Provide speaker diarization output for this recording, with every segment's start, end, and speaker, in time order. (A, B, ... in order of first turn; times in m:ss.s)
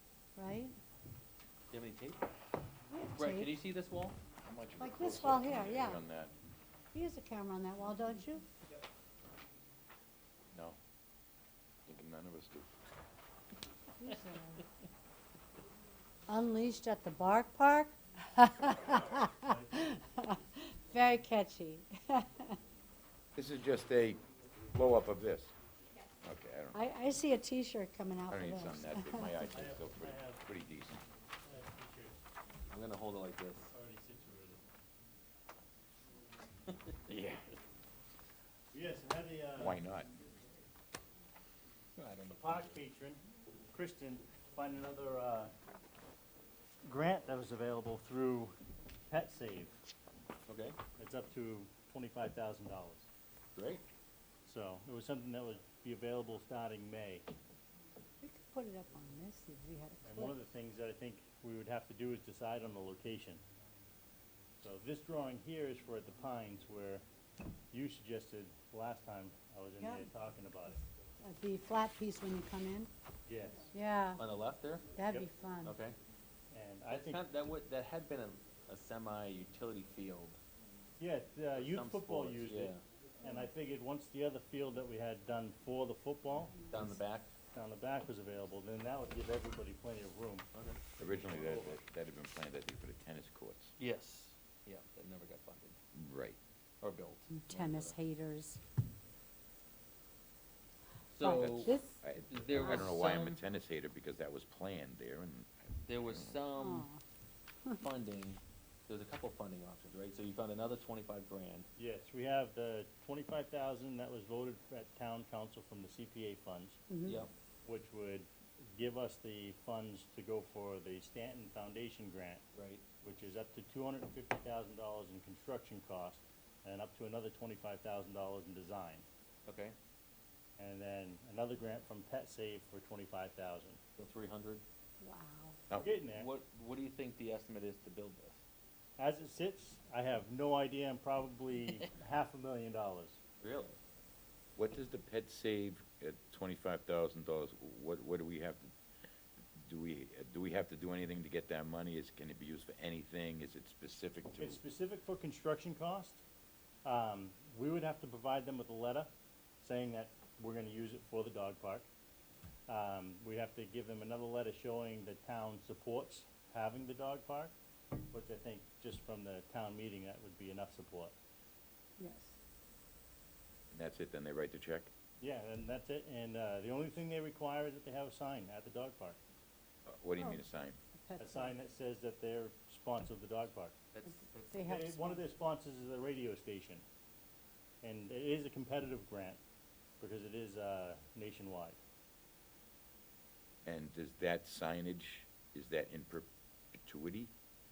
0:00.4-0:00.8 A
0:01.7-0:02.2 B
0:02.9-0:03.5 A
0:03.2-0:04.2 B
0:04.4-0:06.3 C
0:04.8-0:06.0 A
0:06.9-0:08.5 A
0:10.5-0:10.8 C
0:11.9-0:12.7 C
0:14.0-0:14.6 A
0:16.3-0:22.6 A
0:19.3-0:19.7 D
0:23.4-0:25.5 C
0:26.2-0:26.8 C
0:26.7-0:29.4 A
0:28.3-0:31.0 C
0:29.5-0:30.5 D
0:31.4-0:32.2 D
0:32.7-0:33.7 B
0:33.7-0:34.6 D
0:37.1-0:37.5 C
0:38.7-0:39.8 D
0:39.6-0:40.1 C
0:42.0-0:42.8 B
0:42.3-0:45.5 D
0:46.8-0:48.6 D
0:49.1-0:49.8 D
0:50.5-0:50.8 B
0:51.0-0:53.1 D
0:53.6-0:53.9 B
0:54.5-0:57.3 D
0:58.2-1:00.4 A
1:00.0-1:03.4 D
1:04.6-1:07.0 D
1:07.7-1:10.8 D
1:09.8-1:10.1 A
1:11.2-1:12.9 A
1:13.3-1:13.7 D
1:13.7-1:14.2 A
1:14.2-1:14.9 B
1:15.0-1:15.8 A
1:15.6-1:16.0 B
1:16.5-1:17.2 D
1:16.9-1:20.4 B
1:21.0-1:26.6 D
1:21.6-1:22.8 B
1:26.7-1:27.3 B
1:27.5-1:30.5 D
1:30.5-1:31.8 B
1:31.0-1:33.8 C
1:33.8-1:35.8 B
1:35.9-1:36.4 C
1:36.8-1:38.0 B
1:37.3-1:38.6 A
1:41.1-1:41.8 B
1:41.2-1:42.0 A
1:41.4-1:46.4 C
1:42.3-1:43.4 B
1:42.5-1:42.9 A
1:45.8-1:46.9 B
1:46.6-1:47.0 A
1:47.8-1:51.7 B
1:51.8-1:56.8 D
1:56.9-1:57.2 A
1:57.1-1:57.3 B
1:57.6-2:02.4 D
2:02.6-2:02.8 B
2:03.0-2:09.1 D
2:09.5-2:09.8 B
2:10.6-2:13.8 D
2:14.0-2:14.6 B
2:15.0-2:15.6 A
2:15.8-2:16.3 D
2:16.1-2:18.4 B
2:19.0-2:23.2 D
2:23.4-2:23.8 B
2:24.6-2:28.7 C
2:29.6-2:34.6 C
2:34.4-2:36.2 D
2:36.8-2:39.1 D
2:39.6-2:41.9 D
2:42.7-2:47.5 D
2:48.1-2:51.2 D
2:52.0-2:52.4 A
2:53.7-2:54.9 C
2:55.2-2:59.2 D
2:59.9-3:00.8 C
3:01.0-3:01.5 A
3:01.2-3:03.8 D
3:03.9-3:04.6 B
3:04.1-3:05.2 A
3:04.6-3:06.8 D
3:07.8-3:09.4 D
3:10.0-3:11.8 D
3:13.6-3:17.3 C